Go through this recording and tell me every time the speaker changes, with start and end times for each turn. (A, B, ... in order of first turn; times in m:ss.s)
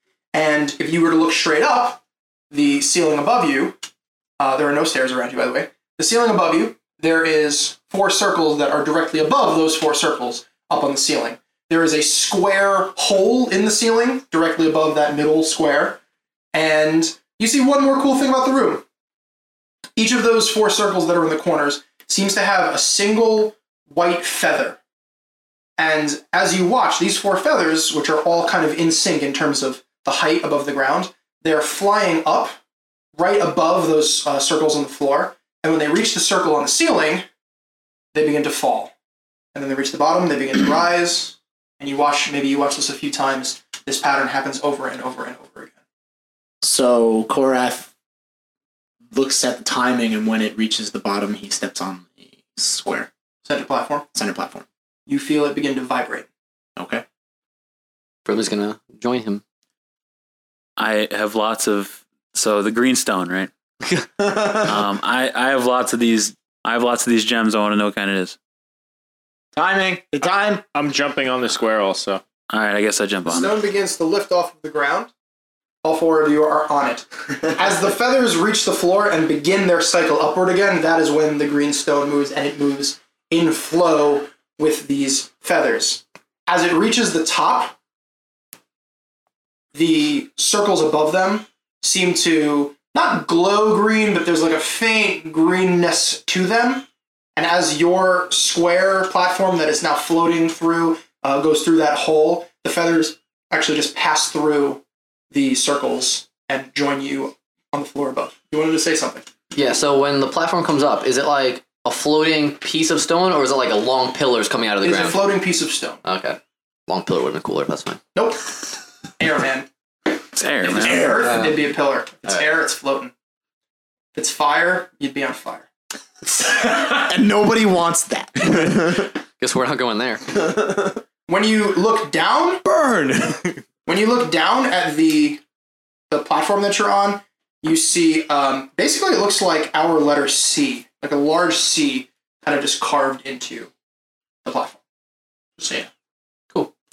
0:00.3-0:03.8 A
0:04.4-0:16.0 A
0:16.5-0:18.8 A
0:20.0-0:24.8 A
0:25.8-0:32.6 A
0:33.2-0:37.2 A
0:38.1-0:38.9 A
0:39.5-0:45.7 A
0:46.6-0:47.9 B
0:49.1-0:53.1 B
0:53.4-0:54.0 A
0:54.1-0:54.6 B
0:55.1-0:56.2 A
0:56.8-0:57.0 B
0:58.2-0:59.4 C
1:00.8-1:03.5 D
1:04.2-1:04.7 B
1:04.6-1:08.4 D
1:09.6-1:10.6 B
1:10.2-1:12.2 E
1:12.5-1:13.5 D
1:13.2-1:15.1 A
1:15.8-1:27.8 A
1:29.7-1:49.3 A
1:49.5-1:55.2 C
1:54.8-1:56.0 A
1:56.0-1:58.0 C
1:58.1-1:58.7 A
1:59.2-1:59.7 A
2:00.3-2:01.2 D
2:00.6-2:03.1 A
2:00.7-2:01.4 B
2:04.1-2:05.6 A
2:06.2-2:09.1 B
2:09.4-2:10.3 C
2:10.4-2:10.9 B
2:11.3-2:12.6 A
2:13.8-2:15.4 A
2:16.1-2:23.7 A
2:24.4-2:24.8 A
2:25.6-2:25.9 A